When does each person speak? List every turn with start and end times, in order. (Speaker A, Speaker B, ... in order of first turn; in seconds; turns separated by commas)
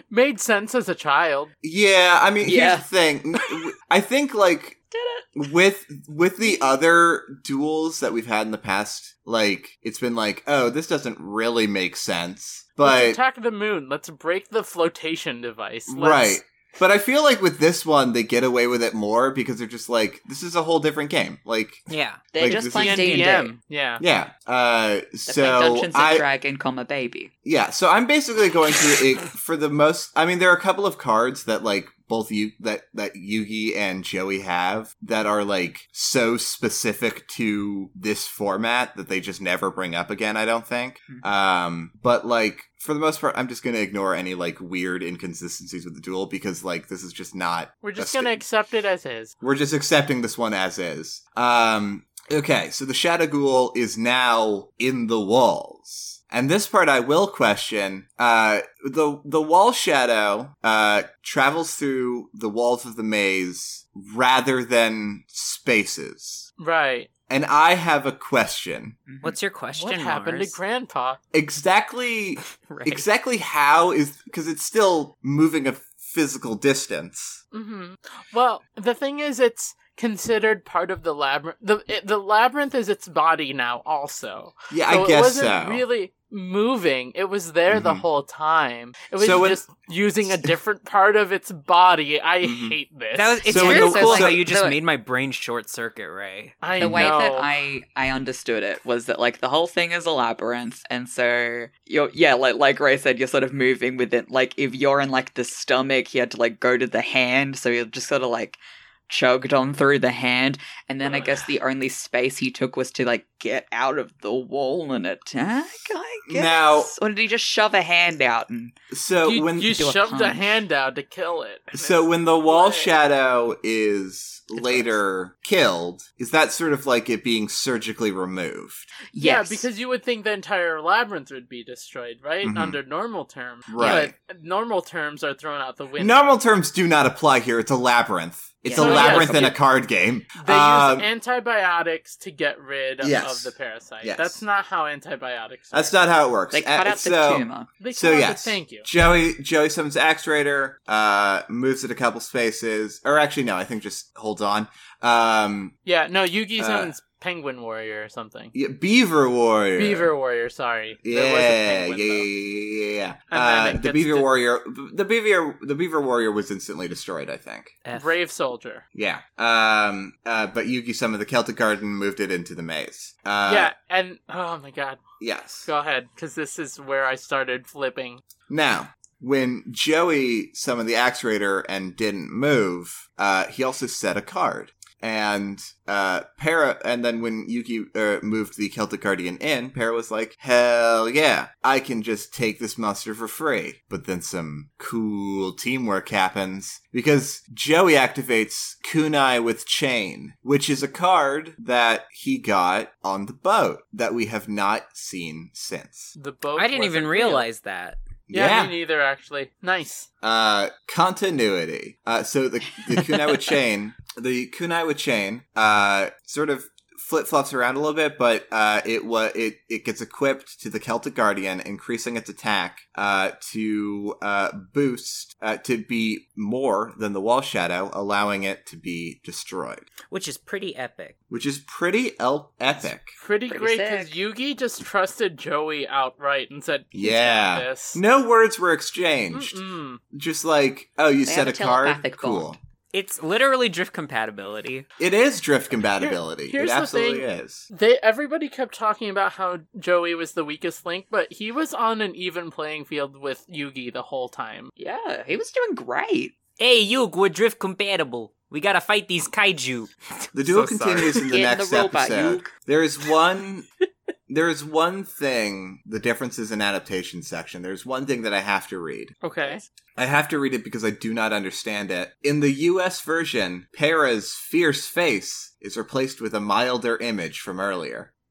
Speaker A: 0.1-1.5, Speaker B: 1.6-4.8, Speaker C: 2.4-3.5, Speaker C: 4.9-5.2, Speaker B: 5.3-13.2, Speaker A: 12.8-16.4, Speaker B: 15.9-23.2, Speaker D: 21.9-22.2, Speaker C: 22.3-23.5, Speaker A: 22.5-24.0, Speaker B: 24.0-26.2, Speaker C: 25.3-27.3, Speaker B: 27.4-48.4, Speaker A: 47.8-49.3, Speaker B: 49.4-66.5, Speaker A: 66.6-67.1, Speaker B: 67.3-69.0, Speaker C: 69.1-69.4, Speaker D: 69.2-70.6, Speaker A: 69.8-71.2, Speaker B: 71.3-77.4, Speaker D: 72.7-73.0, Speaker A: 77.5-93.4, Speaker B: 84.7-85.8, Speaker B: 87.7-88.0, Speaker B: 89.2-89.6, Speaker B: 92.4-92.8, Speaker D: 93.1-96.6, Speaker B: 93.4-94.4, Speaker C: 93.5-94.8, Speaker A: 96.6-97.5, Speaker C: 96.8-118.7, Speaker B: 96.8-97.1, Speaker A: 111.0-111.3, Speaker B: 116.2-116.9, Speaker B: 118.9-119.8, Speaker A: 119.2-122.9, Speaker C: 119.8-120.4, Speaker B: 121.7-128.9, Speaker C: 124.5-124.9, Speaker C: 129.1-129.7, Speaker A: 129.2-136.2, Speaker B: 132.4-132.8, Speaker B: 133.7-134.1, Speaker C: 133.8-134.0, Speaker B: 136.0-141.1, Speaker C: 138.6-139.6, Speaker A: 138.8-139.5, Speaker A: 140.4-145.9, Speaker B: 143.0-144.4, Speaker B: 145.7-155.7, Speaker C: 146.5-147.7, Speaker A: 147.8-148.8, Speaker A: 155.8-158.5, Speaker B: 156.6-156.9, Speaker B: 158.5-160.1, Speaker A: 159.8-162.3, Speaker B: 161.0-167.8, Speaker A: 163.3-164.3, Speaker D: 167.8-168.1, Speaker A: 167.9-168.8, Speaker B: 168.9-173.7, Speaker A: 173.4-175.0, Speaker B: 175.2-175.7, Speaker A: 175.6-178.2, Speaker B: 178.5-206.1, Speaker A: 206.2-207.4, Speaker D: 206.6-208.0, Speaker B: 208.3-208.7, Speaker A: 208.3-210.1, Speaker B: 210.2-229.9, Speaker D: 230.1-231.2, Speaker B: 231.3-233.2, Speaker A: 233.2-238.0, Speaker C: 233.5-234.2, Speaker B: 236.9-239.6, Speaker A: 239.3-240.0, Speaker B: 240.1-242.6, Speaker C: 241.2-242.6, Speaker D: 242.9-244.9, Speaker B: 245.0-247.7, Speaker A: 246.0-254.7, Speaker C: 254.8-256.3, Speaker D: 256.6-261.2, Speaker B: 260.3-263.6, Speaker C: 261.2-262.5, Speaker B: 264.3-269.2, Speaker A: 269.2-269.6, Speaker B: 269.9-278.1